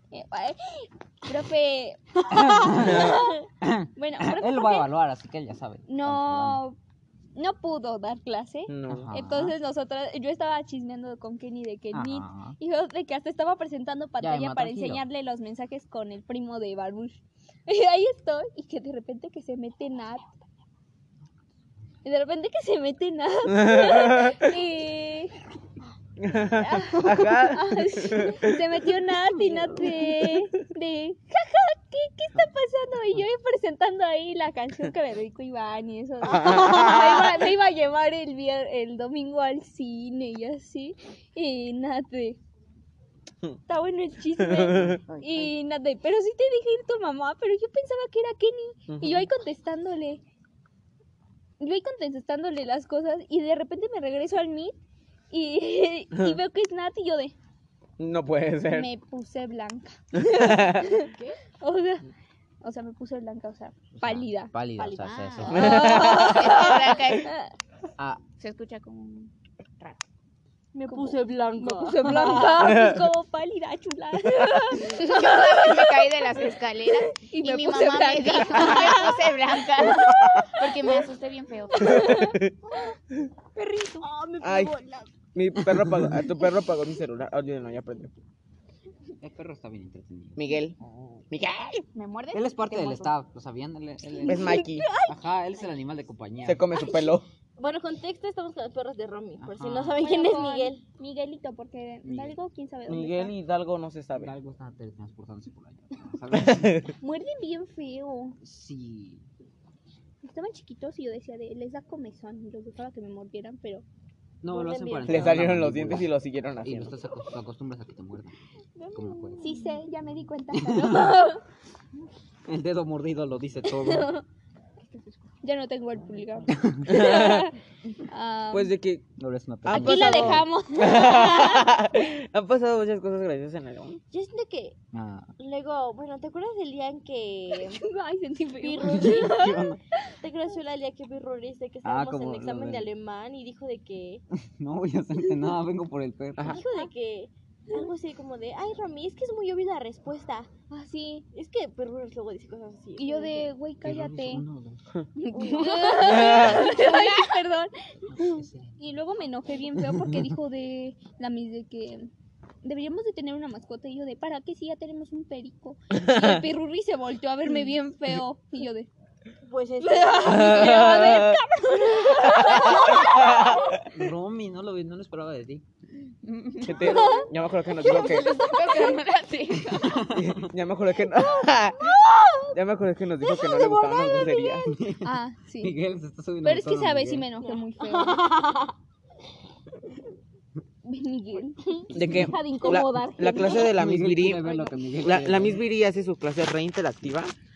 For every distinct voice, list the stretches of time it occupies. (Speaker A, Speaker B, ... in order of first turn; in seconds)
Speaker A: 0.1-3.4, 4.0-4.9, 5.9-6.8, 7.3-20.4, 22.0-25.4, 26.6-42.4, 43.7-50.2, 51.6-54.8, 55.3-57.3, 58.7-61.1, 61.6-62.1, 62.6-65.0, 65.5-67.5, 70.9-76.3, 77.1-79.2, 79.8-80.5, 81.8-82.4, 83.5-84.0, 100.0-103.3, 107.0-108.4, 110.2-113.8, 119.4-121.4, 125.4-128.7, 129.7-131.7, 137.5-139.5, 150.7-151.2, 153.0-154.4, 155.2-157.7, 158.8-162.1, 162.6-168.9, 169.8-173.1, 176.8-177.2, 185.0-185.8, 186.4-188.2, 190.8-193.7
Speaker B: 2.3-6.6, 8.9-9.6, 11.9-12.6, 14.2-15.0, 44.7-45.5, 63.9-65.9, 89.2-91.2, 92.3-96.7, 99.4-100.0, 102.0-102.3, 104.1-106.9, 108.4-109.2, 114.4-118.3, 118.9-119.4, 120.5-121.2, 122.5-124.1, 126.5-127.0, 129.2-130.4, 134.9-135.3, 138.8-139.8, 141.8-142.9, 144.3-146.6, 153.8-154.8, 158.1-158.8, 159.9-160.3, 173.9-175.6, 179.8-180.4, 184.7-187.3, 193.5-195.7
Speaker C: 8.7-9.1, 23.5-24.5, 26.2-28.6, 36.5-36.9, 44.4-45.0, 48.9-49.3, 56.1-56.4, 58.0-58.9, 60.2-61.0, 65.5-66.5, 72.6-73.0, 80.0-80.5, 81.8-82.5, 84.4-84.8, 85.3-88.2, 90.3-90.8, 91.3-91.8, 94.2-94.9, 96.4-97.2, 102.9-104.3, 106.3-106.9, 115.0-116.9, 126.9-127.5, 128.5-129.1, 129.6-134.0, 146.4-146.6, 155.9-156.7, 165.9-166.4, 170.2-171.4, 172.2-173.8, 176.6-178.4, 180.0-184.7, 191.9-197.3
Speaker D: 36.3-37.1, 65.7-66.7, 70.7-72.5, 84.0-85.1, 94.2-95.1, 97.6-100.8, 114.5-115.4, 118.8-119.6, 134.1-134.8, 135.4-137.8, 138.6-139.7, 140.2-144.2, 146.4-150.5, 151.3-153.5, 155.3-157.2, 169.4-173.5, 176.9-177.2, 183.4-184.5, 187.4-188.7
Speaker E: 65.0-67.3, 68.4-70.0, 74.8-82.2, 91.9-93.1, 124.9-125.2, 176.2-177.2, 177.8-180.1